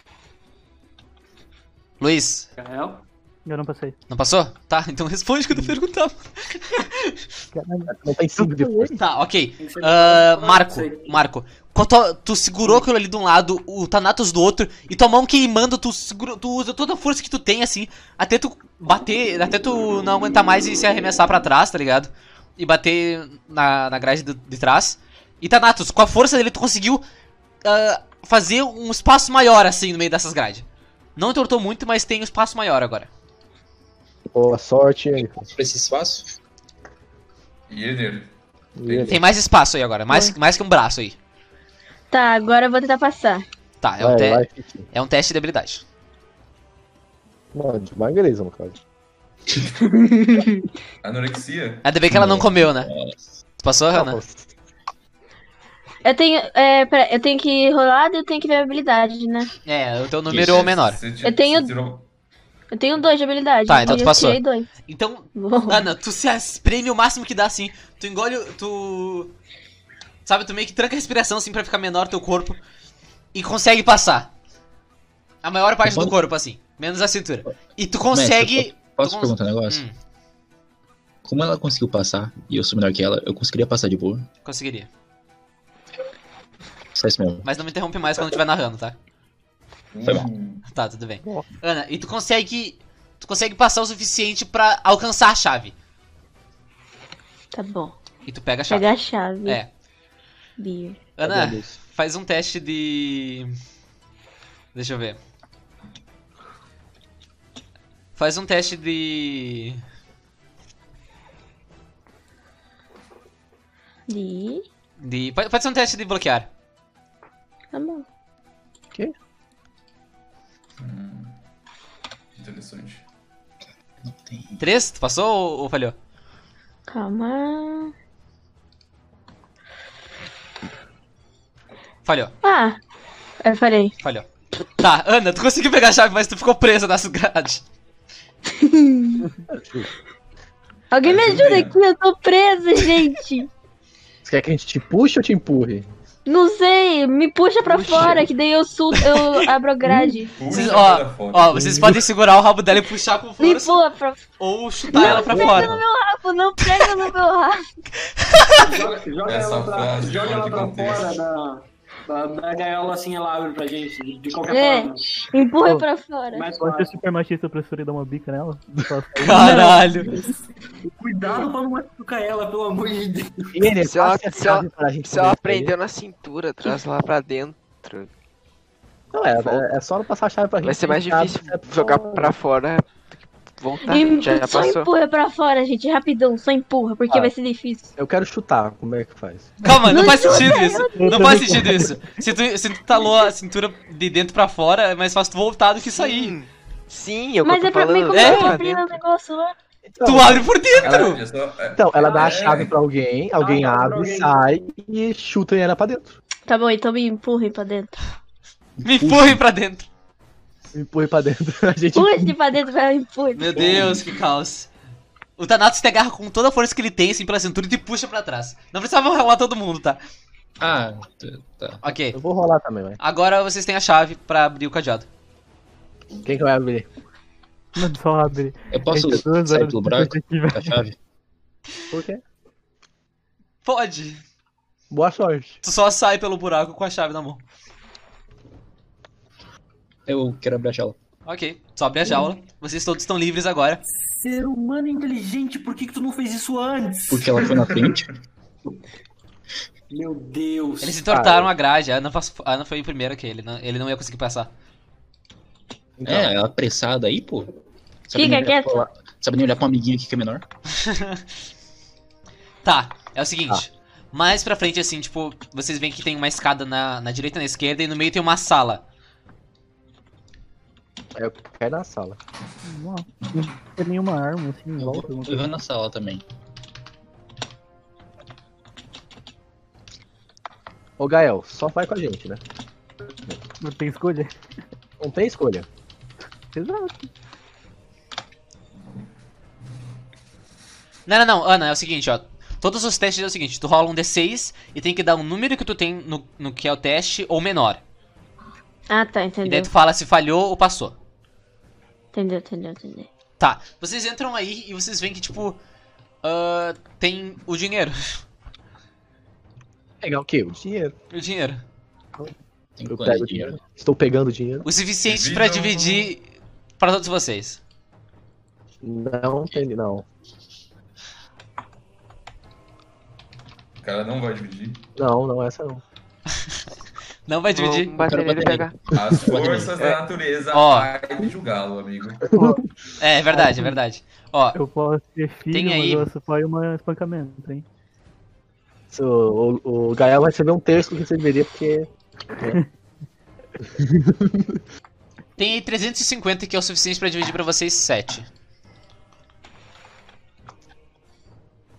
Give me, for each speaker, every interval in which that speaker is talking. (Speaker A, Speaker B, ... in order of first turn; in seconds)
Speaker A: 2.0-2.5, 4.1-7.2, 9.0-27.0, 27.6-33.1, 39.1-41.2, 43.8-45.8, 51.8-52.9, 53.6-54.2, 59.6-61.0, 63.7-69.3, 70.2-72.6, 73.3-74.3, 75.4-79.9, 84.4-84.9, 87.4-89.0, 90.7-95.7, 98.2-98.9, 99.4-99.7, 101.2-103.5, 104.7-105.2, 108.1-109.8, 115.0-116.5, 124.6-126.0, 132.0-132.3, 134.0-137.6, 149.0-149.4, 150.5-153.8, 154.4-155.8, 158.2-158.7, 169.2-170.1, 189.6-196.3, 198.1-198.6, 200.0-201.2, 208.8-209.9, 213.3-214.7, 215.4-220.0, 221.8-222.2, 223.0-225.1, 233.6-234.2, 235.6-237.4, 241.2-243.8, 250.8-254.5, 260.7-261.2, 262.6-268.8, 291.1-297.8, 299.4-300.9, 303.4-305.6, 306.2-308.2, 311.1-311.6, 314.6-316.3, 316.8-317.6, 327.3-327.9, 330.5-330.9, 333.0-334.6, 335.5-336.1, 345.4-348.3
Speaker B: 2.6-3.0, 9.6-11.1, 158.6-165.2, 166.3-167.0, 170.8-173.6, 202.0-202.6, 203.4-204.4, 244.0-247.4, 249.9-251.0
Speaker C: 3.5-4.0, 7.5-9.0, 166.6-169.9, 190.6-192.0, 227.8-230.8, 272.6-275.5, 283.6-284.3, 286.5-287.1, 332.3-332.6, 333.4-333.8, 334.5-337.6
Speaker D: 7.9-8.9, 34.3-35.5, 38.8-39.2, 44.0-44.9, 47.5-48.8, 53.9-54.5, 101.2-101.8, 139.5-139.9, 144.2-145.9, 147.7-148.2, 151.5-152.0, 154.9-155.8, 168.7-169.5, 173.5-175.7, 179.1-182.3, 187.9-189.6, 199.8-201.1, 201.7-206.2, 210.7-212.4, 222.1-223.0, 226.2-226.9, 231.9-232.2, 234.9-235.6, 251.1-251.5, 256.0-256.3, 271.1-272.2, 281.0-282.4, 285.0-285.6, 310.0-310.9, 312.9-314.7, 318.8-320.0, 324.9-325.8, 329.0-329.2, 332.3-332.6, 338.9-342.6, 343.7-344.6
Speaker E: 35.4-36.3, 52.1-53.2, 75.8-76.1, 78.1-79.8, 81.2-84.3, 86.9-87.5, 124.0-124.6, 208.8-209.4, 220.6-221.8, 228.7-230.9, 240.1-241.0, 247.1-248.1, 256.0-257.5, 258.1-260.4, 274.8-276.2, 312.8-313.6, 328.0-329.8
Speaker F: 37.7-38.3, 38.9-39.2, 51.0-51.9, 60.3-62.0, 89.9-90.6, 120.8-121.3, 122.3-123.0, 141.0-141.8, 150.3-151.9, 159.2-161.2, 170.1-170.3, 200.7-202.7, 213.5-214.2, 247.4-248.0, 315.1-316.1, 323.8-324.8, 328.9-332.2
Speaker G: 40.1-40.3, 42.1-43.4, 56.0-59.5, 61.2-61.7, 62.7-64.7, 65.3-65.8, 97.5-98.0, 98.7-99.6, 100.6-101.1, 114.1-114.6, 117.7-118.0, 126.9-127.9, 132.4-132.8, 133.4-133.9, 138.5-139.2, 140.9-143.5, 146.2-150.3, 153.4-154.2, 154.9-157.6, 164.5-166.5, 183.8-187.9, 189.9-191.4, 197.4-199.5, 206.5-208.0, 211.9-213.6, 258.1-258.8, 298.9-299.7, 302.1-303.1
Speaker H: 173.8-178.1, 179.4-179.7, 180.6-184.9, 195.8-199.0, 327.5-328.8